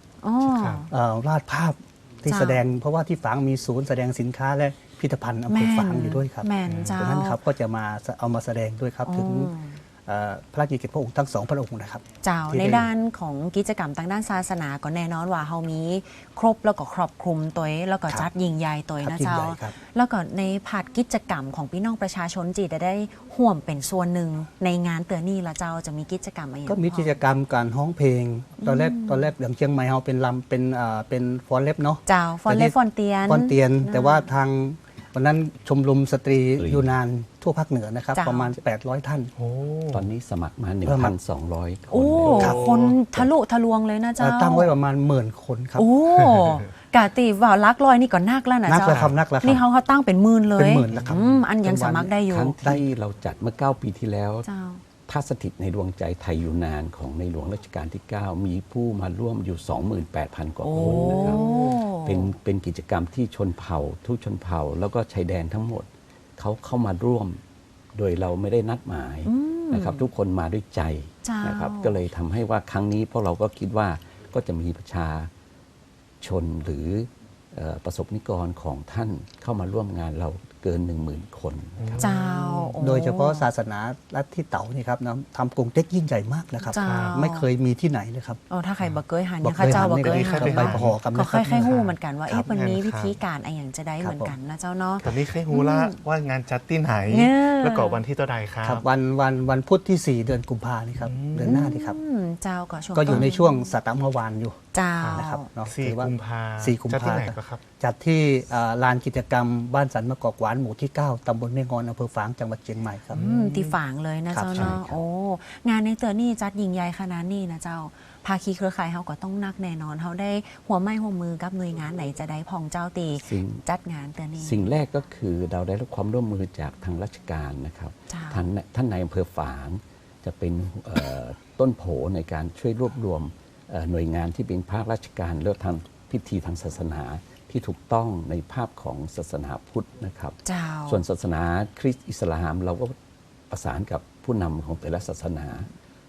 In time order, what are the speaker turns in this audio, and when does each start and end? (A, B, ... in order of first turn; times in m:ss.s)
0:00.2-0:00.9 A
0:00.4-0:00.9 B
0:00.9-0:09.5 C
0:02.3-0:02.6 A
0:05.5-0:07.4 A
0:06.7-0:07.0 B
0:09.0-0:09.8 A
0:10.1-0:12.9 C
0:12.2-0:27.1 A
0:19.0-0:19.8 C
0:26.7-0:32.7 C
0:28.6-0:29.3 A
0:32.1-0:34.3 A
0:33.3-0:39.3 C
0:36.6-0:36.9 D
0:38.2-0:38.6 A
0:39.4-0:40.1 B
0:39.9-0:42.6 D
0:40.8-0:41.1 C
0:41.9-0:44.7 A
0:42.2-0:43.0 B
0:42.4-0:42.7 C
0:44.2-0:45.9 C
0:45.8-0:52.8 A
0:48.7-0:49.6 C
0:48.9-0:49.2 B
0:50.6-0:52.1 C
0:52.3-0:54.5 D
0:54.4-0:54.8 A
0:55.1-1:07.4 D
1:00.6-1:02.3 A
1:00.8-1:01.2 B
1:07.9-1:15.3 D
1:09.2-1:10.1 A
1:11.2-1:12.0 A
1:16.2-1:22.0 D
1:21.8-1:22.7 B
1:22.0-1:23.5 A
1:22.8-1:28.4 C
1:26.7-1:27.5 A
1:26.8-1:27.2 B
1:28.5-1:36.0 A
1:29.4-1:32.5 C
1:29.7-1:31.0 B
1:32.5-1:33.2 B
1:34.0-1:34.4 C
1:35.0-1:38.8 B
1:37.1-1:38.0 A
1:38.6-1:42.0 C
1:41.0-1:41.6 B
1:41.4-1:43.8 A
1:42.9-1:44.6 C
1:44.7-1:45.5 A
1:45.0-1:47.6 B
1:45.2-1:53.2 C
1:53.1-1:53.8 B
1:53.1-2:04.7 A
1:54.3-1:54.8 C
1:54.5-1:55.0 D
2:03.2-2:03.6 D
2:04.4-2:23.0 D
2:08.1-2:08.5 A
2:20.4-2:21.0 A
2:23.5-2:25.7 D